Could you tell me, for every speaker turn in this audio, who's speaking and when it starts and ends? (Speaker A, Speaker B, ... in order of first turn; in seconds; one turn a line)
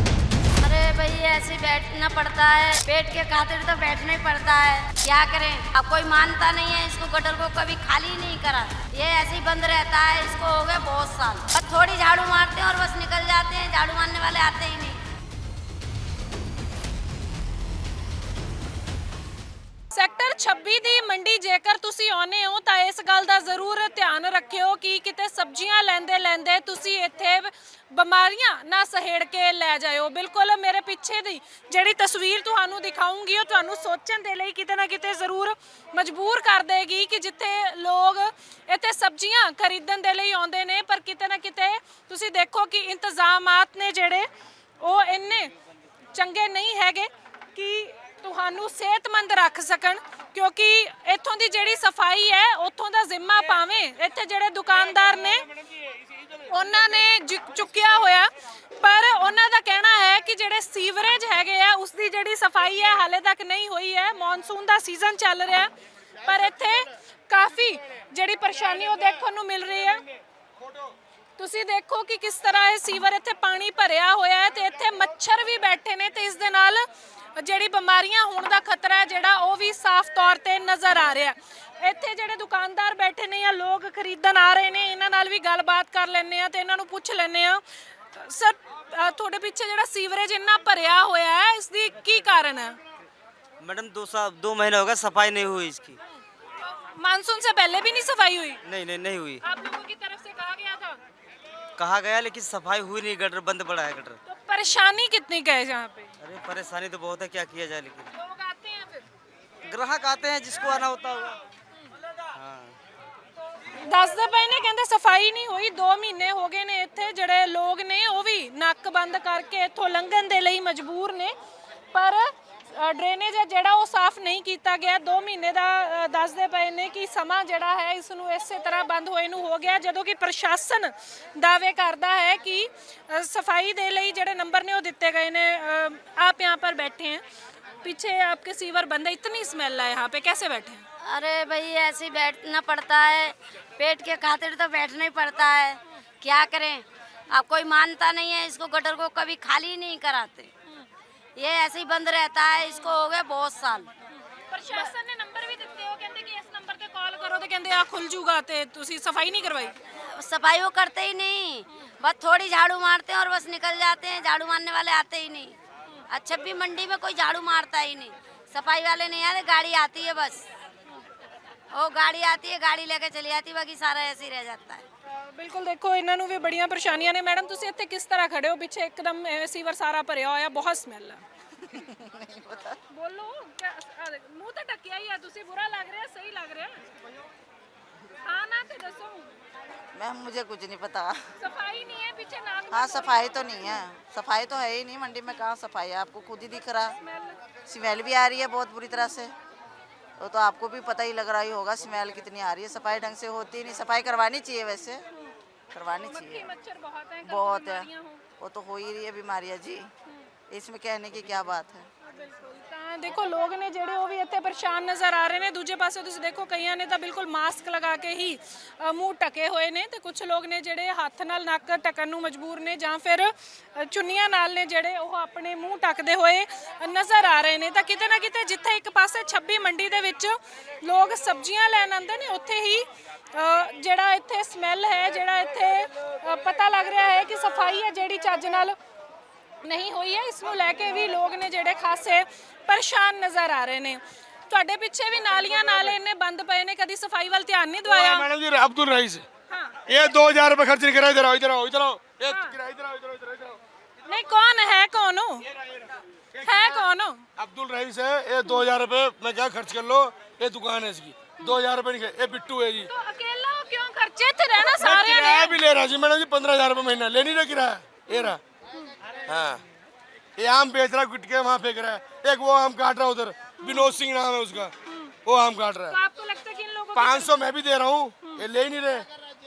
Speaker A: 0.6-15.0
Speaker B: 19.9-44.3
Speaker B: 44.8-45.5
Speaker B: 46.1-55.5
Speaker B: 56.4-65.7
Speaker B: 66.2-70.0
Speaker B: 71.4-76.9
Speaker B: 77.4-92.8
Speaker C: 93.6-96.0
Speaker B: 96.6-98.6
Speaker C: 98.6-99.4
Speaker B: 99.4-101.0
Speaker C: 101.8-104.2
Speaker B: 104.2-106.1
Speaker C: 106.2-108.1
Speaker B: 108.1-109.0
Speaker C: 109.6-111.4
Speaker C: 112.3-112.7
Speaker B: 113.8-121.3
Speaker B: 121.9-137.2
Speaker B: 137.8-140.8
Speaker A: 141.0-150.5
Speaker A: 151.4-153.9
Speaker B: 154.3-159.8
Speaker A: 160.2-165.6
Speaker A: 166.1-170.4
Speaker A: 171.7-174.8
Speaker B: 175.3-181.2
Speaker D: 181.6-182.8
Speaker B: 182.9-186.8
Speaker B: 188.2-189.3
Speaker D: 189.9-191.2
Speaker B: 191.4-193.8
Speaker D: 192.7-197.0
Speaker B: 197.0-197.4
Speaker D: 197.7-199.3
Speaker D: 200.2-205.1
Speaker D: 205.7-206.5
Speaker B: 205.9-208.2
Speaker D: 207.2-209.9
Speaker D: 210.5-211.9
Speaker B: 212.1-238.8
Speaker B: 239.6-248.3
Speaker E: 247.9-249.2
Speaker B: 249.5-249.8
Speaker E: 249.9-253.6
Speaker B: 252.2-252.6
Speaker B: 254.1-255.5
Speaker E: 256.4-256.8
Speaker B: 256.4-257.2
Speaker E: 257.4-262.9
Speaker B: 262.9-265.6
Speaker E: 264.6-268.4
Speaker B: 268.1-268.9
Speaker E: 269.2-269.6
Speaker E: 270.4-276.0
Speaker B: 273.6-273.9
Speaker B: 275.9-277.4
Speaker E: 276.9-279.1